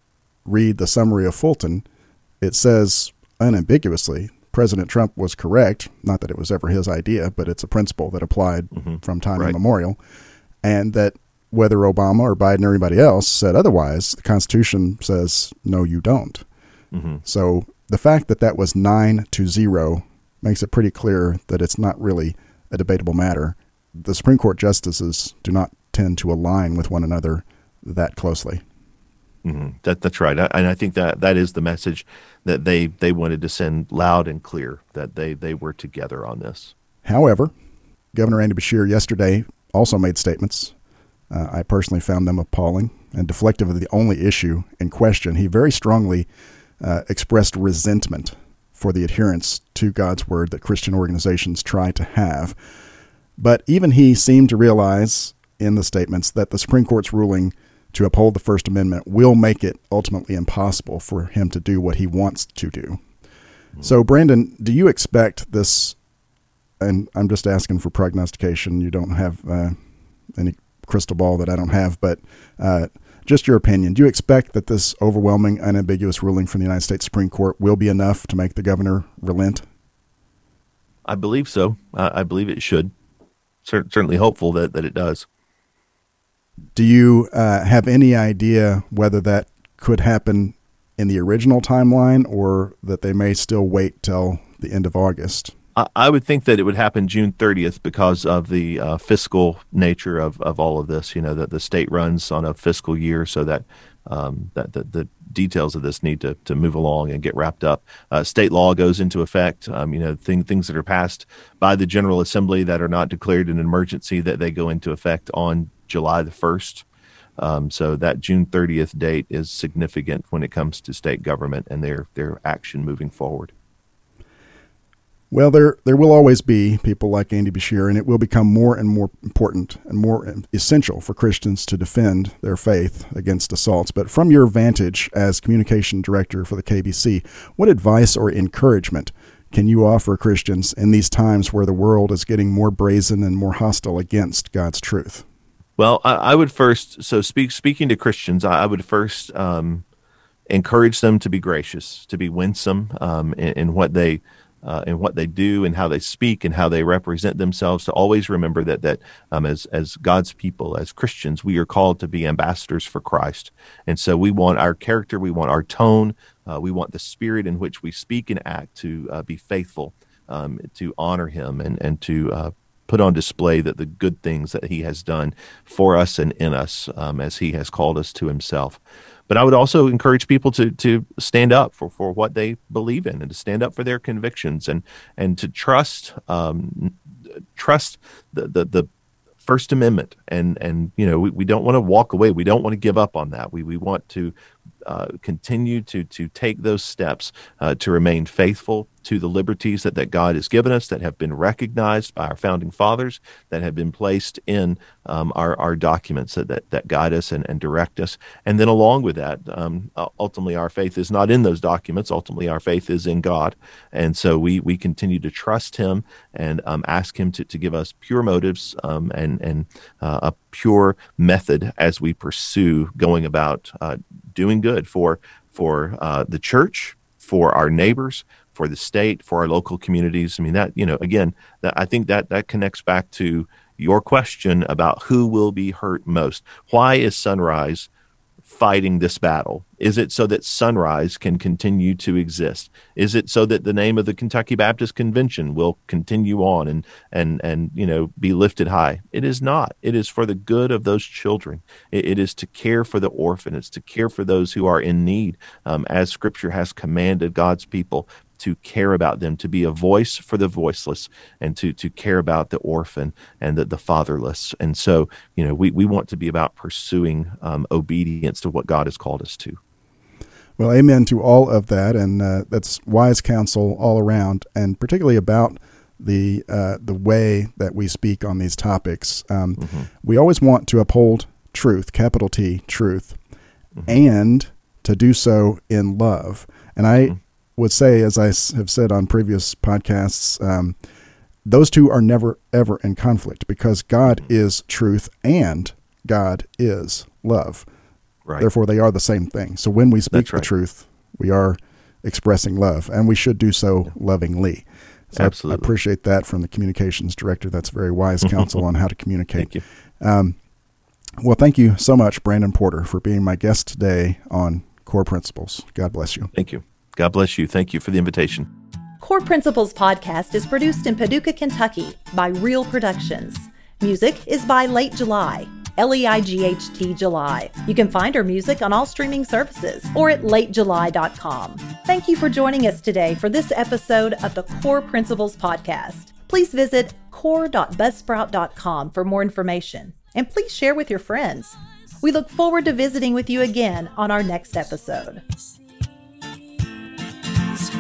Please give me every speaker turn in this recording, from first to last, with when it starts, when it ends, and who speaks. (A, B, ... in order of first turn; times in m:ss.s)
0:00.4-0:01.8 A
0:02.4-0:10.0 A
0:08.8-0:09.6 B
0:10.6-0:16.4 A
0:16.9-0:17.2 B
0:17.2-0:28.6 A
0:29.4-0:36.7 B
0:37.0-0:37.5 A
0:38.1-0:40.8 A
0:41.3-0:46.3 A
0:46.8-0:52.6 A
0:53.4-1:03.0 A
1:03.8-1:06.0 A
1:06.8-1:09.8 A
1:10.3-1:19.7 A
1:21.1-1:22.9 B
1:23.6-1:25.3 B
1:26.8-1:35.5 A
1:35.8-1:56.8 B
1:57.4-2:03.5 B
2:05.3-2:25.2 A
2:25.8-2:29.8 B
2:30.5-3:06.9 B
3:07.6-3:08.9 B
3:09.4-3:14.3 B
3:14.8-3:57.9 B
3:58.4-4:29.6 B
4:30.6-4:43.2 A
4:43.9-4:50.8 A
4:51.5-4:57.7 A
4:58.4-5:10.4 A
5:00.1-5:00.5 B
5:05.2-5:05.7 B
5:09.4-5:09.6 B
5:11.2-5:16.3 A
5:16.3-5:18.5 B
5:19.0-5:45.2 C